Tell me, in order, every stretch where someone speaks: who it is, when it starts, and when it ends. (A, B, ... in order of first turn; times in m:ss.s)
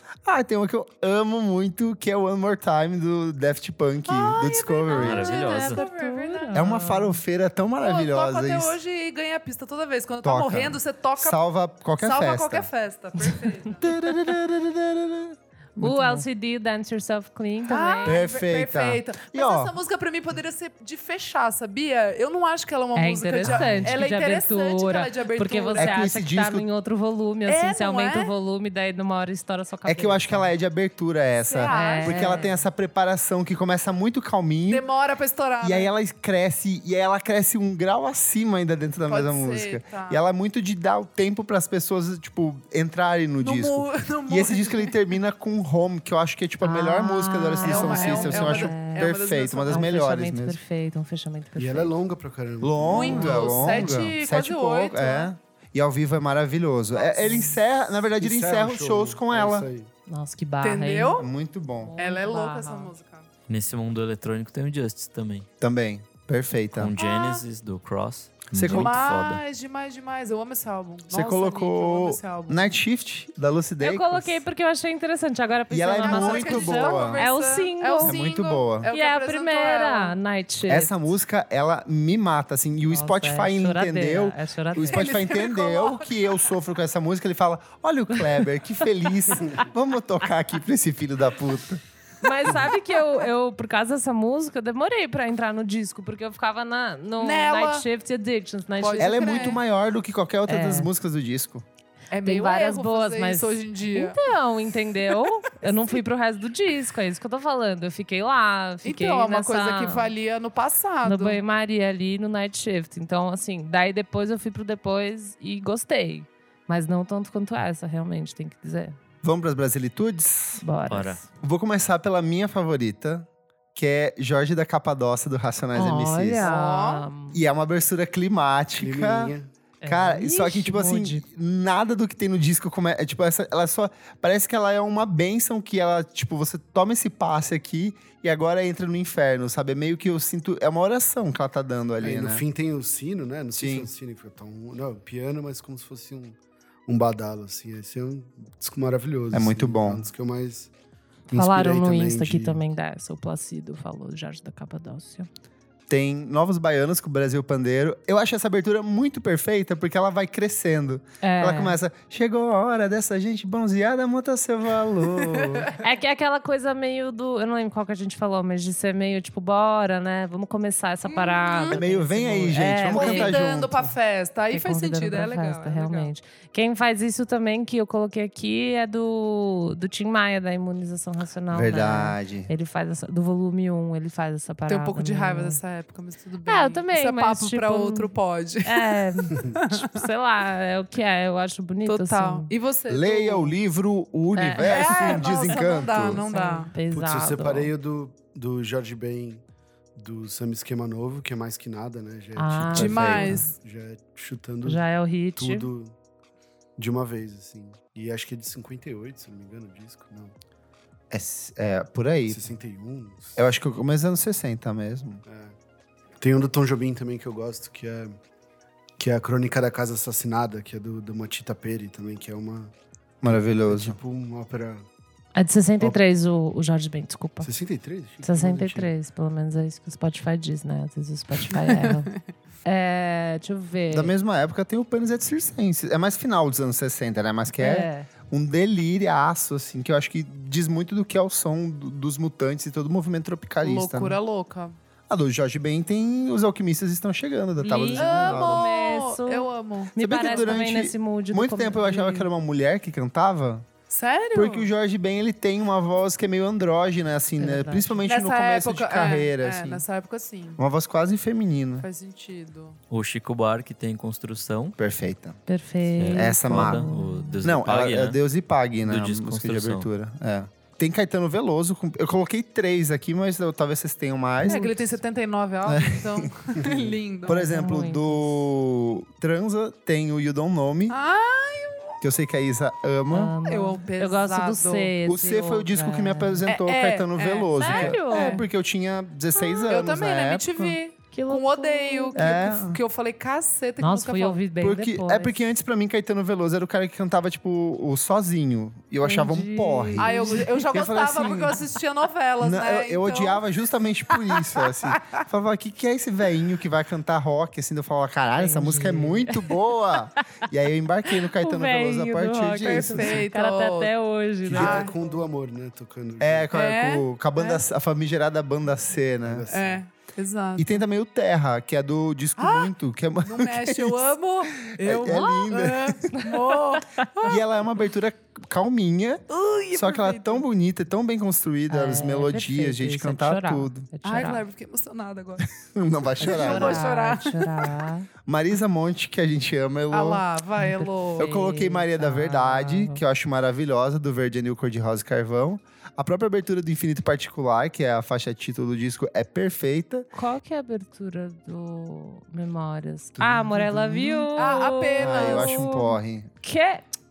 0:00.2-0:05.3 A
0:04.0-0:06.7 B
0:04.9-0:05.8 C
0:05.3-0:07.2 D
0:06.5-0:08.8 A
0:07.8-0:11.4 B
0:10.2-0:12.7 A
0:12.0-0:13.9 B
0:13.8-0:16.2 A
0:15.8-0:18.2 D
0:17.6-0:26.0 B
0:18.0-0:19.7 A
0:22.9-0:30.5 D
0:23.4-0:23.9 A
0:25.8-0:26.7 A
0:27.4-0:28.3 B
0:29.8-0:34.8 A
0:31.4-0:32.4 B
0:31.6-0:32.5 D
0:34.7-0:35.9 B
0:35.6-0:50.6 A
0:39.1-0:40.2 B
0:43.4-0:45.0 B
0:46.6-0:49.1 D
0:47.6-0:49.9 B
0:49.6-0:51.9 D
0:51.6-0:53.7 E
0:52.6-0:59.7 A
0:52.8-0:55.3 B
0:53.2-0:53.6 D
0:56.9-0:57.5 B
0:57.2-0:57.5 D
0:58.2-0:59.9 E
1:00.1-1:01.2 D
1:00.6-1:01.3 B
1:01.2-1:01.9 A
1:01.8-1:02.9 D
1:02.0-1:03.3 B
1:03.5-1:05.5 C
1:05.6-1:06.9 A
1:06.8-1:09.4 C
1:07.0-1:07.4 B
1:08.5-1:08.9 A
1:08.6-1:12.7 B
1:11.1-1:14.4 A
1:13.8-1:18.2 D
1:15.7-1:17.2 A
1:16.0-1:20.2 B
1:18.0-1:18.9 A
1:18.9-1:21.0 D
1:20.7-1:31.8 A
1:22.9-1:25.4 D
1:24.9-1:26.3 B
1:32.2-1:39.6 D
1:37.2-1:37.9 B
1:38.8-1:39.6 B
1:39.0-1:41.6 A
1:40.5-1:40.9 D
1:42.1-1:44.2 B
1:42.2-1:50.1 D
1:48.8-1:51.4 B
1:51.0-1:59.0 D
1:59.2-2:00.6 A
2:00.6-2:01.3 D
2:00.9-2:01.2 C
2:01.4-2:06.5 A
2:05.7-2:07.4 D
2:06.4-2:07.1 B
2:07.3-2:09.3 A
2:08.8-2:09.5 E
2:09.8-2:11.2 D
2:09.8-2:22.4 A
2:22.0-2:30.7 E
2:23.5-2:23.9 A
2:29.3-2:30.0 A
2:31.3-2:32.6 E
2:31.3-2:35.3 D
2:35.9-2:45.7 A
2:41.2-2:41.8 D
2:45.3-2:45.7 B
2:45.8-2:53.4 D
2:51.0-2:51.8 B
2:51.7-2:53.9 A
2:52.8-2:56.1 B
2:54.5-3:05.6 D
3:01.5-3:02.5 A
3:04.7-3:10.0 B
3:06.5-3:08.1 D
3:08.6-3:12.5 D
3:11.8-3:13.5 B
3:12.9-3:16.3 A
3:14.3-3:17.7 D
3:14.6-3:16.8 B
3:16.9-3:19.4 E
3:20.0-3:24.8 E
3:22.4-3:23.5 D
3:22.7-3:23.4 A
3:22.8-3:23.6 B
3:24.6-3:25.7 D
3:25.4-3:25.9 E
3:26.8-3:30.3 E
3:31.1-3:32.4 A
3:32.3-3:33.4 E
3:33.4-3:35.2 A
3:35.2-3:35.5 E
3:36.2-3:38.2 E
3:39.0-3:42.7 E
3:43.2-3:44.0 A
3:43.7-3:44.8 E
3:45.3-3:47.5 D
3:47.4-3:48.9 E
3:48.2-3:52.1 D
3:51.5-3:52.2 B
3:52.6-3:54.1 D
3:53.9-4:04.2 A
3:57.6-3:58.1 D
4:03.6-4:04.7 B
4:05.1-4:08.7 A
4:07.6-4:12.3 D
4:07.9-4:10.7 B
4:10.0-4:13.7 A
4:13.9-4:14.7 B
4:14.3-4:19.8 A
4:17.4-4:18.1 D
4:18.0-4:20.6 B
4:20.6-4:21.9 A
4:21.8-4:22.8 B
4:22.9-4:24.8 C
4:24.8-4:25.4 A
4:25.5-4:27.4 D
4:26.0-4:28.2 C
4:26.1-4:26.9 A
4:27.4-4:34.7 A
4:28.8-4:29.9 C
4:34.4-4:34.7 D
4:34.4-4:37.5 B
4:35.6-4:36.3 A
4:36.6-4:36.9 E
4:37.2-4:41.0 A
4:37.3-4:38.3 D
4:40.9-4:42.0 B
4:42.0-4:43.4 A
4:43.1-4:46.4 D
4:43.4-4:44.9 B
4:45.0-4:50.8 A
4:46.4-4:48.4 B
4:47.6-4:48.4 D
4:49.3-4:49.8 D
4:49.7-4:54.4 B
4:51.1-4:52.5 D
4:52.1-4:52.8 A
4:53.8-4:55.4 D
4:54.6-5:01.6 A
4:59.0-5:00.7 D
5:00.0-5:03.4 B
5:02.4-5:13.2 A
5:04.1-5:05.2 B
5:08.4-5:09.5 D
5:11.1-5:14.9 D
5:12.6-5:13.9 B
5:14.5-5:16.5 E
5:14.5-5:14.9 B
5:16.2-5:19.4 A
5:16.5-5:17.6 B
5:19.2-5:19.8 E
5:19.5-5:20.8 B
5:20.6-5:26.3 A
5:22.4-5:22.7 B
5:23.2-5:27.4 B
5:26.2-5:27.3 D
5:27.2-5:33.9 A
5:29.3-5:30.4 B
5:31.7-5:34.4 D
5:34.0-5:35.4 B
5:35.4-5:36.9 A
5:36.2-5:37.7 B
5:36.2-5:38.1 D
5:38.2-5:40.2 A
5:39.9-5:41.3 B
5:40.6-5:43.0 D
5:41.2-5:50.1 A
5:50.1-5:56.8 D
5:53.2-5:54.3 A
5:54.3-5:55.7 B
5:55.0-5:56.3 A